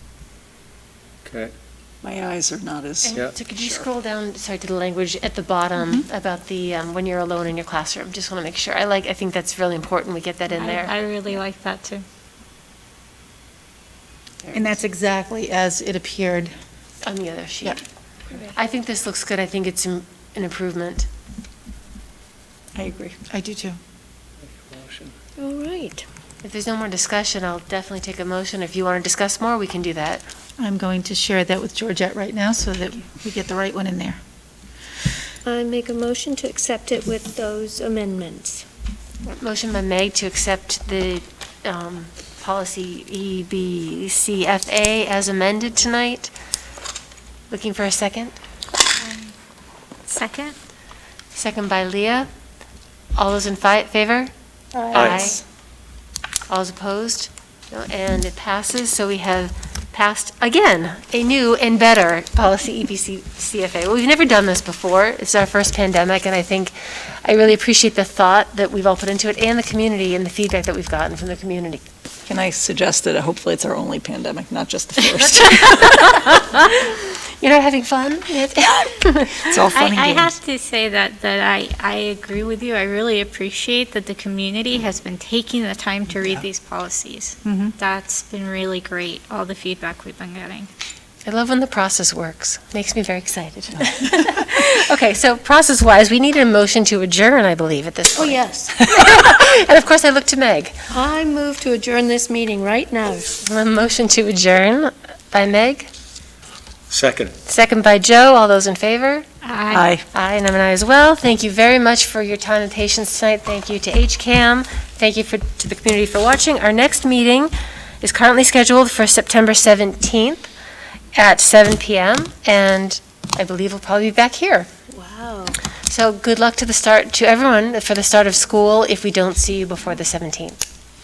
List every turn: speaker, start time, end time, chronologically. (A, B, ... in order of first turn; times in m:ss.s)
0:01.2-0:01.5 A
0:02.0-0:03.9 B
0:03.0-0:10.9 C
0:05.8-0:06.0 D
0:10.5-0:12.0 E
0:14.5-0:16.5 D
0:17.0-0:17.8 C
0:18.4-0:21.1 C
0:22.7-0:23.2 B
0:23.3-0:23.8 D
0:24.4-0:25.1 A
0:25.4-0:26.0 F
0:26.4-0:30.2 C
0:30.6-0:34.2 D
0:35.4-0:38.6 F
0:39.2-0:46.3 C
0:47.5-0:48.3 C
0:49.0-0:49.3 E
0:50.1-0:50.6 E
0:51.3-0:52.3 C
0:53.2-0:54.3 C
0:54.7-0:55.4 F
0:54.9-0:55.4 C
0:54.9-0:55.3 A
0:56.5-1:11.8 C
1:12.2-1:16.4 B
1:15.4-1:19.7 C
1:19.4-1:20.3 B
1:19.7-1:30.7 E
1:27.4-1:27.7 D
1:31.2-1:40.8 C
1:38.2-1:38.8 F
1:40.9-1:43.3 F
1:43.4-1:45.9 C
1:46.9-1:47.3 A
1:47.4-1:49.2 C
1:49.4-1:49.9 E
1:49.7-1:50.0 B
1:50.1-2:00.5 C
2:01.1-2:04.7 C
2:04.9-2:05.6 F
2:05.8-2:10.6 C